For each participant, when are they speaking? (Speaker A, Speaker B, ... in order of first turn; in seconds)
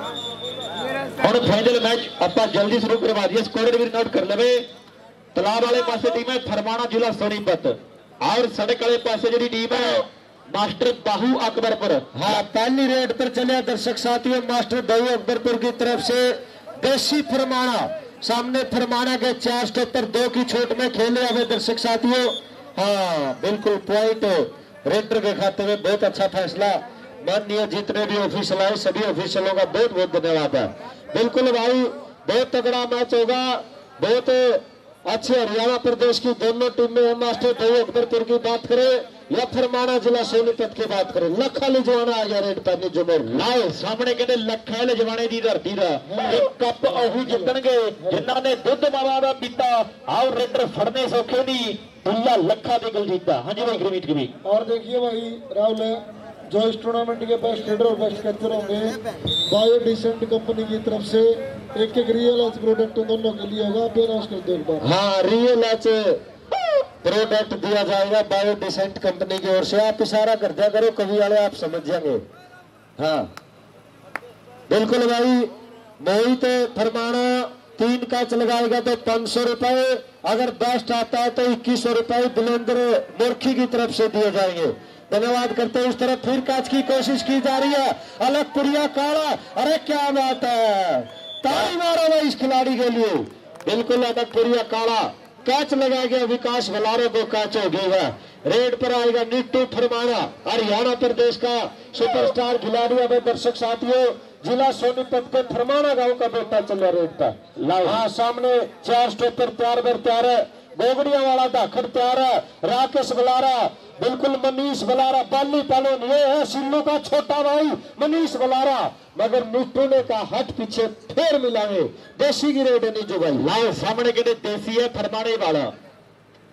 Speaker A: 1.2-4.6, 5.3-12.4, 43.3-54.3, 107.6-108.0, 123.4-125.7
Speaker B: 12.1-43.4, 54.6-54.9, 64.8-66.2, 67.0-72.2, 73.0-73.3, 74.7-123.5
Speaker C: 47.0-47.3, 54.4-64.8